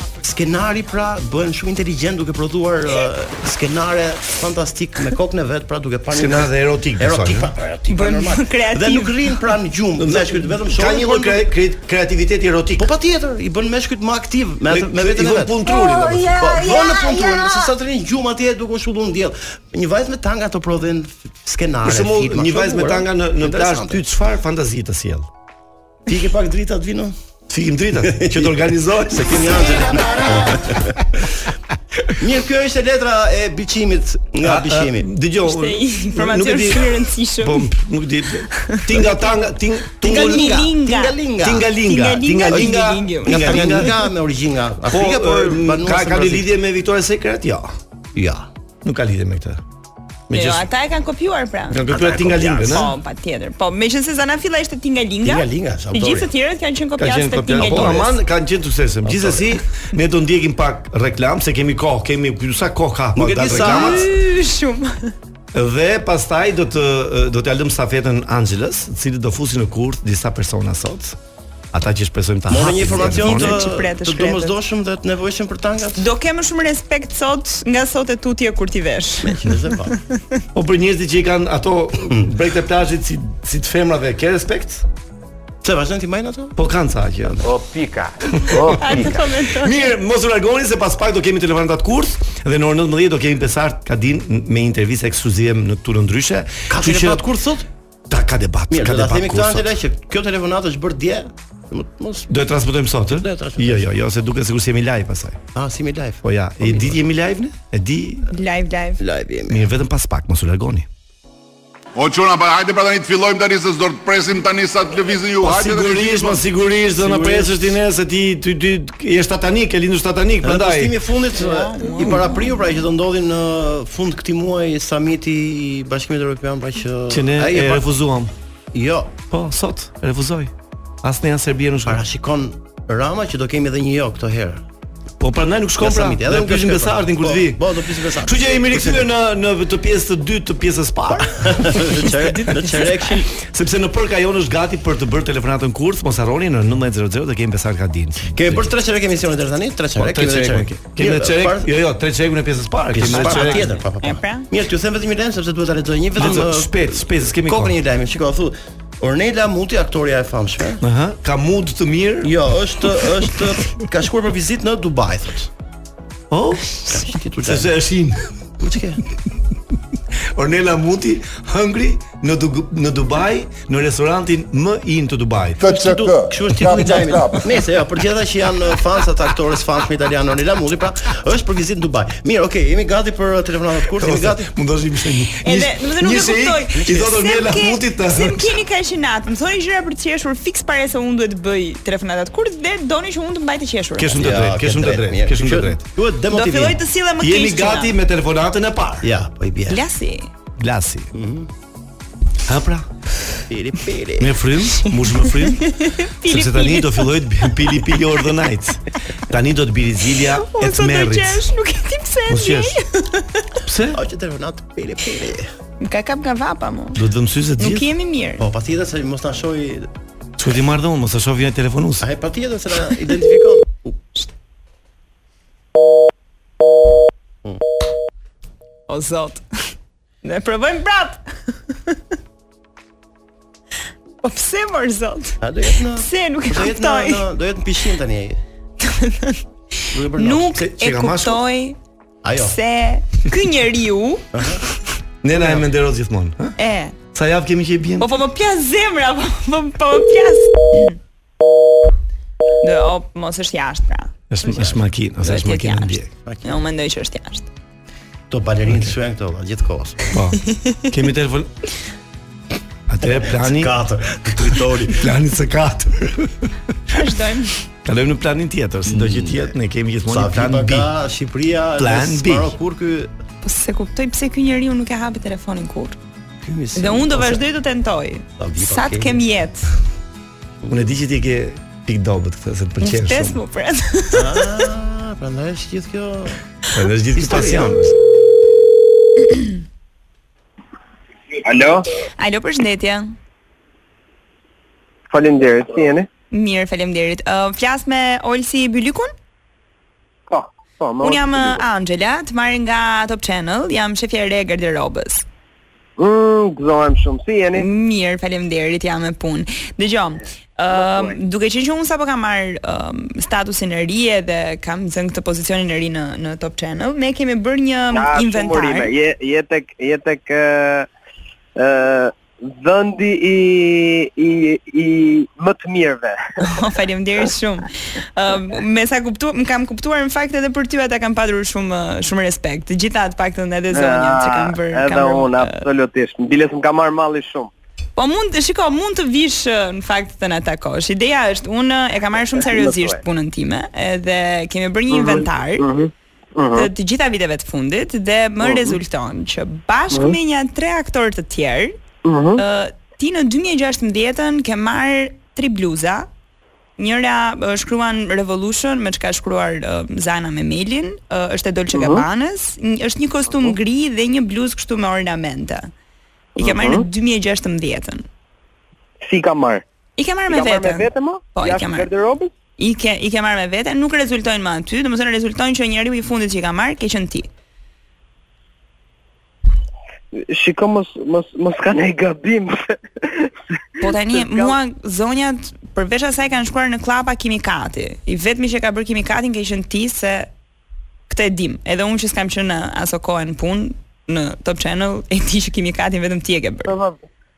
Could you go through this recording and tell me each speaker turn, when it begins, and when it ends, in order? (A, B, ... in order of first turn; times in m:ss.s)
0:00.2-0:11.4 A
0:06.1-0:07.5 B
0:07.9-0:09.1 C
0:10.0-0:12.9 B
0:12.8-0:15.6 A
0:14.7-0:16.5 B
0:16.3-0:24.0 A
0:21.8-0:25.3 B
0:26.1-0:27.2 A
0:27.5-0:30.5 B
0:28.0-0:31.2 A
0:32.2-0:35.1 A
0:34.4-0:40.7 B
0:35.5-0:37.7 C
0:38.6-0:39.0 C
0:40.0-0:41.7 A
0:40.0-0:41.2 C
0:41.4-0:44.0 B
0:41.8-0:43.9 C
0:42.5-0:46.5 A
0:44.9-0:47.7 B
0:48.2-0:48.5 A
0:48.8-0:49.6 B
0:50.3-0:50.7 B
0:50.3-0:51.9 C
0:51.7-0:52.9 B
0:51.9-0:52.9 A
0:52.6-0:58.2 C
0:55.2-0:56.3 A
0:57.0-1:04.1 B
0:57.6-0:58.2 A
0:59.1-0:59.5 A
1:03.2-1:04.1 A
1:03.5-1:05.1 C
1:05.5-1:11.2 B
1:11.7-1:13.7 B
1:12.5-1:16.1 A
1:13.2-1:14.5 C
1:16.0-1:20.2 C
1:19.2-1:19.9 A
1:20.6-1:24.9 B
1:25.6-1:26.6 A
1:26.6-1:27.5 B
1:28.3-1:37.2 B
1:28.8-1:29.8 C
1:36.7-1:37.7 A
1:38.1-1:39.7 B
1:38.7-1:42.3 A
1:42.3-1:45.4 B
1:43.1-1:43.8 A
1:45.6-1:47.0 A
1:46.2-1:48.3 B
1:48.3-1:49.0 C
1:49.0-1:49.7 A
1:49.5-1:50.9 B
1:52.0-1:56.4 D
1:55.4-2:01.0 B
1:57.0-1:57.8 A
2:00.4-2:07.9 A
2:01.4-2:02.6 C
2:07.1-2:08.3 B
2:08.7-2:09.2 A
2:09.3-2:10.5 B
2:11.0-2:12.0 B
2:11.9-2:14.6 A
2:15.2-2:22.7 B
2:15.8-2:19.0 A
2:21.1-2:23.3 A
2:23.4-2:28.7 B
2:28.3-2:31.7 A
2:30.0-2:33.7 B
2:32.9-2:40.8 A
2:33.1-2:34.5 C
2:36.2-2:37.8 B
2:40.8-2:42.3 B
2:42.2-2:45.5 A
2:46.3-2:48.3 B
2:46.9-2:47.7 A
2:48.6-2:49.0 A
2:50.3-2:55.8 B
2:55.6-3:04.5 A
3:04.0-3:08.6 B
3:05.4-3:14.2 C
3:06.8-3:07.2 A
3:14.0-3:15.8 B
3:14.2-3:16.8 A
3:16.3-3:18.0 C
3:17.2-3:19.1 B
3:19.0-3:19.8 A
3:19.7-3:20.3 C
3:20.6-3:21.1 B
3:21.1-3:21.5 A
3:22.5-3:22.9 B
3:23.5-3:24.3 A
3:24.2-3:31.4 B
3:25.6-3:27.2 C
3:30.2-3:33.5 C
3:32.3-3:32.8 B
3:33.6-3:34.0 B
3:33.9-3:35.5 A
3:35.8-3:37.0 C
3:37.0-3:37.9 B
3:37.6-3:38.4 C
3:38.4-3:39.9 A
3:40.4-3:42.0 B
3:42.0-3:44.0 A
3:48.9-3:49.4 C
3:50.2-3:52.0 C
3:54.2-3:57.2 C
3:55.4-3:58.4 A
3:58.8-3:59.4 C
3:59.9-4:00.6 A
4:00.2-4:01.8 C
4:00.5-4:01.4 B
4:02.2-4:02.6 A
4:02.4-4:04.3 C
4:04.3-4:04.6 A
4:05.2-4:06.6 B
4:05.4-4:05.6 A
4:06.6-4:07.0 C
4:07.1-4:08.1 B
4:08.0-4:11.0 C
4:12.6-4:14.1 C
4:14.3-4:16.1 B
4:15.2-4:17.5 C
4:18.3-4:20.1 A
4:20.1-4:21.5 B
4:22.9-4:23.8 B
4:23.2-4:25.0 A
4:24.9-4:26.5 B
4:26.9-4:27.6 C
4:27.8-4:30.9 B
4:28.9-4:29.5 A
4:30.1-4:33.1 A
4:31.8-4:32.6 B
4:33.4-4:36.0 C
4:36.4-4:37.4 A
4:36.8-4:39.7 C
4:38.4-4:39.2 A
4:40.7-4:43.4 B
4:42.8-4:44.5 C
4:44.1-4:46.4 A
4:46.7-4:47.9 B
4:47.2-4:47.9 A
4:51.4-4:51.9 E
4:52.2-4:53.2 C
4:55.1-4:56.1 E
4:56.3-4:59.1 C
5:00.3-5:01.6 E
5:01.0-5:05.2 C
5:06.0-5:07.7 E
5:07.6-5:18.9 C
5:10.7-5:11.2 E
5:17.9-5:20.9 E
5:21.6-5:26.3 E
5:26.4-5:35.6 C
5:33.7-5:37.5 E
5:38.0-5:45.7 C
5:42.4-5:43.0 E
5:44.9-5:46.7 E
5:46.5-5:51.8 C
5:48.4-5:48.8 E
5:49.9-5:50.2 E
5:52.0-5:52.4 E
5:52.4-5:56.1 C
5:56.8-6:05.7 C
6:01.7-6:02.0 E
6:06.4-6:06.9 E
6:06.4-6:08.0 C
6:09.0-6:09.6 E
6:10.0-6:11.9 C
6:10.3-6:12.3 E
6:12.6-6:17.3 C
6:20.2-6:24.6 E
6:23.8-6:30.3 C
6:31.1-6:36.8 C
6:36.7-6:37.0 E